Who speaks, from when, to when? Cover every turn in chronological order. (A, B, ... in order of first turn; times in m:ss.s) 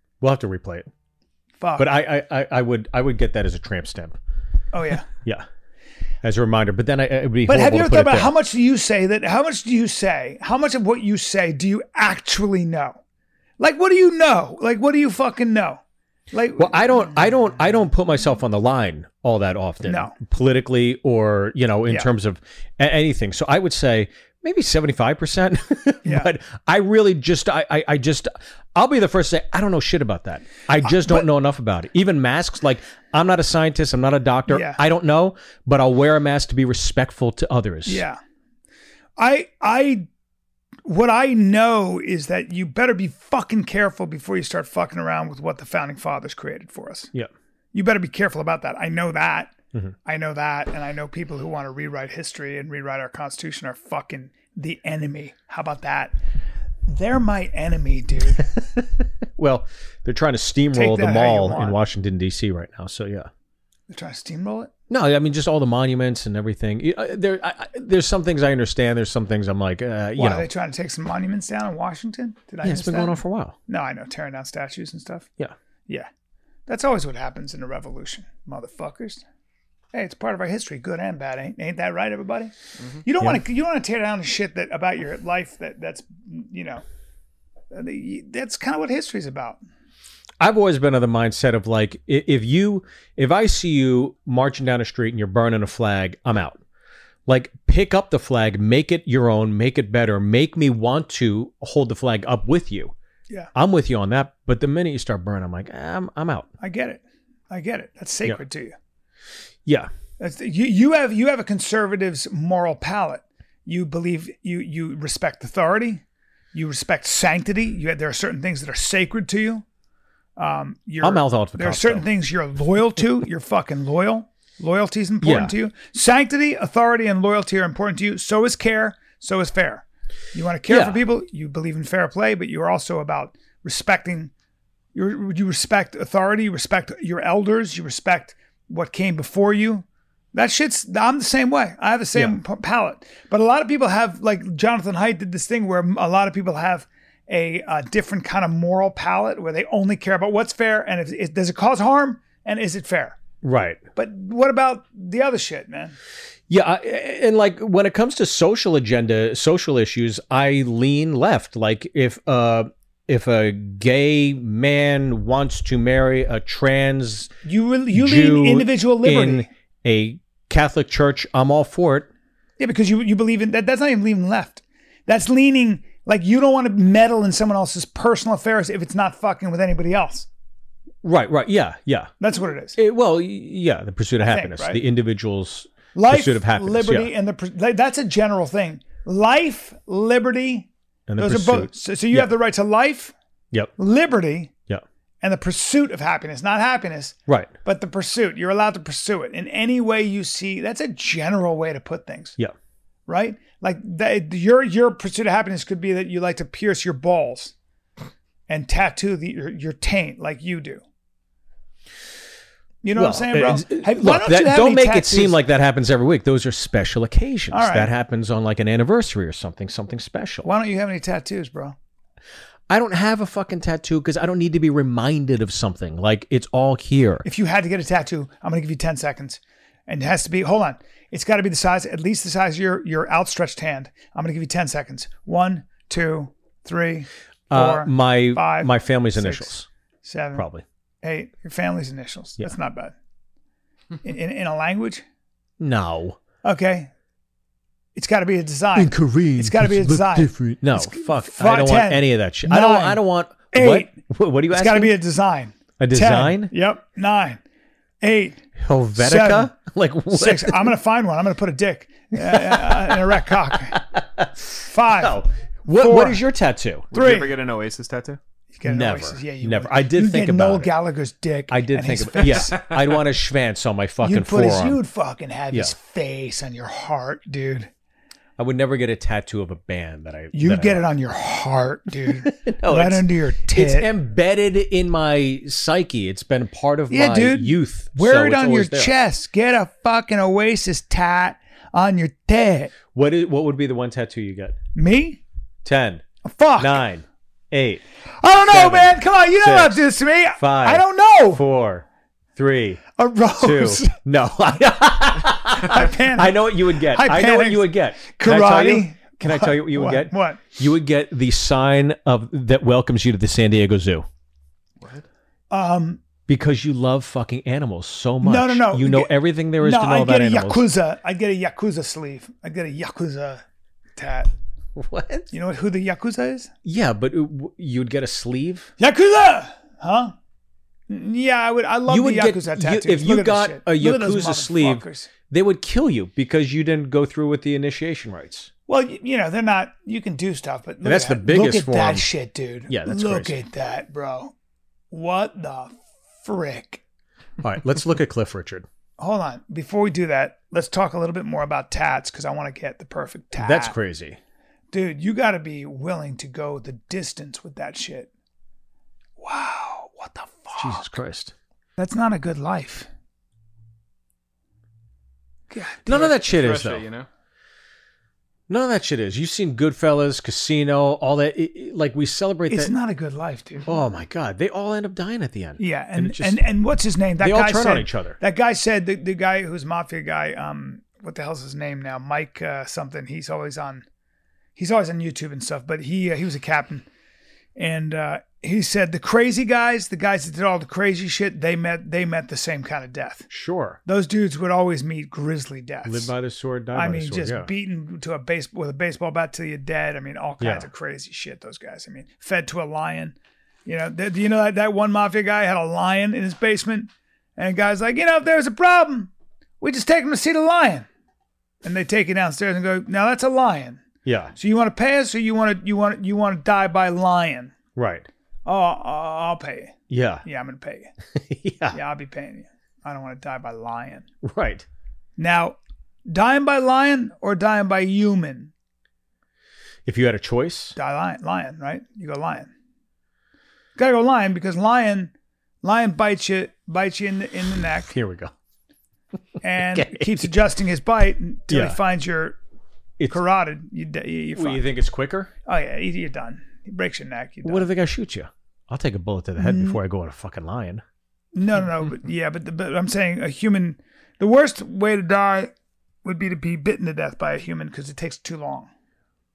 0:00.2-0:00.9 A
0:01.6-0:01.9 B
0:01.8-0:04.2 A
0:04.7-0:05.1 B
0:06.2-0:08.3 A
0:07.5-0:13.0 B
0:13.6-0:15.8 B
0:16.3-0:17.2 B
0:16.6-0:38.0 A
0:19.9-0:20.2 B
0:26.0-0:26.3 B
0:31.0-0:31.2 B
0:34.5-0:34.8 B
0:37.9-0:38.2 B
0:39.2-0:40.1 B
0:40.9-0:47.1 B
0:47.7-0:49.5 B
0:50.0-0:56.1 B
0:56.9-0:58.5 B
0:58.4-1:03.3 A
1:00.7-1:01.8 B
1:03.9-1:04.7 B
1:04.9-1:10.5 A
1:10.2-1:15.3 B
1:12.6-1:13.6 A
1:16.7-1:19.2 B
1:19.9-1:26.8 B
1:27.7-1:29.6 B
1:30.4-1:36.6 A
1:37.3-1:42.9 A
1:43.6-1:46.5 A
1:46.6-1:48.8 B
1:50.2-1:56.0 B
1:56.5-1:59.6 B
2:00.4-2:14.3 B
2:01.0-2:02.1 A
2:05.2-2:05.5 A
2:10.7-2:11.0 A
2:15.0-2:33.2 B
2:33.4-2:33.8 A
2:34.0-2:36.0 B
2:36.5-2:47.3 A
2:47.4-2:49.5 B
2:47.9-2:52.1 A
2:52.6-3:00.3 B
3:01.0-3:02.1 A
3:02.2-3:02.8 B
3:02.8-3:07.1 A
3:04.3-3:04.8 B
3:05.9-3:13.1 B
3:11.1-3:12.3 A
3:13.8-3:14.5 B
3:15.2-3:22.4 B
3:17.3-3:17.5 A
3:23.1-3:27.5 B
3:28.5-3:30.8 B
3:32.8-3:35.4 B
3:33.0-3:40.5 A
3:37.5-3:37.9 B
3:40.4-3:41.8 B
3:42.7-3:47.2 A
3:47.2-3:59.5 B
3:57.5-3:59.7 A
4:00.0-4:00.5 B
4:00.4-4:00.6 A
4:01.0-4:02.9 B
4:04.0-4:05.0 B
4:05.6-4:06.2 A
4:06.4-4:06.9 B
4:08.0-4:14.0 B
4:08.8-4:15.0 A
4:14.5-4:17.4 B
4:15.8-4:16.5 A
4:18.0-4:18.4 B
4:18.6-4:20.7 A
4:19.0-4:19.5 B
4:20.1-4:23.8 B
4:22.2-4:23.2 A
4:23.8-4:26.9 A
4:24.6-4:26.2 B
4:26.9-4:28.2 C
4:26.9-4:27.3 B
4:28.5-4:32.6 B
4:28.6-4:30.7 A
4:31.5-4:34.8 A
4:34.0-4:37.7 B
4:38.4-4:40.8 A
4:40.3-4:43.9 B
4:42.1-4:48.9 A
4:46.9-4:52.7 B
4:52.9-4:54.6 A
4:54.8-4:55.2 B
4:55.6-4:56.0 A
4:56.2-4:56.8 B
4:56.6-4:57.8 A
4:58.2-5:01.4 B
4:58.5-4:59.8 A
5:00.4-5:01.8 A
5:02.4-5:02.8 A
5:03.0-5:04.0 B
5:03.4-5:14.1 A
5:05.6-5:10.4 B
5:15.5-5:16.0 B
5:16.3-5:20.6 A
5:18.2-5:23.4 B
5:24.0-5:24.3 B
5:24.8-5:25.3 A
5:25.3-5:26.5 B
5:26.6-5:28.7 A
5:28.8-5:30.1 B
5:30.9-5:35.1 B
5:31.9-5:38.5 A
5:38.7-5:44.3 B
5:40.8-5:42.1 A
5:42.7-5:43.4 A
5:44.9-5:46.8 B
5:47.4-5:48.7 A
5:49.0-5:53.8 B
5:53.4-5:54.2 A
5:54.7-5:58.1 B
5:59.2-6:00.9 B
6:00.6-6:01.3 A
6:01.8-6:02.9 B
6:05.5-6:06.1 B
6:05.9-6:06.8 A
6:05.9-6:07.1 C
6:08.5-6:12.7 A
6:12.5-6:13.7 B
6:13.7-6:16.4 A
6:15.6-6:23.8 B
6:17.2-6:18.2 A
6:24.6-6:26.9 B
6:27.6-6:33.3 B
6:33.3-6:33.8 A
6:33.9-6:36.1 B
6:35.8-6:37.5 A
6:36.7-6:50.9 B
6:40.4-6:40.7 A
6:51.6-6:53.8 B
6:54.0-6:54.3 A
6:54.4-6:57.5 B
6:57.8-6:58.1 A
6:58.5-7:00.9 B
6:59.9-7:00.2 A
7:01.2-7:01.8 A
7:01.7-7:04.1 B
7:04.2-7:04.7 A
7:05.2-7:05.6 B
7:06.1-7:08.5 B
7:09.9-7:10.8 A
7:10.8-7:12.5 B
7:13.8-7:15.1 B
7:15.6-7:17.9 B
7:17.9-7:18.3 A
7:19.4-7:22.4 B
7:19.7-7:20.3 A
7:21.5-7:21.8 A
7:23.1-7:24.6 B
7:24.4-7:25.3 A
7:25.5-7:27.7 B
7:27.4-7:30.8 A
7:29.4-7:29.8 B
7:31.4-7:35.5 B
7:36.0-7:38.7 B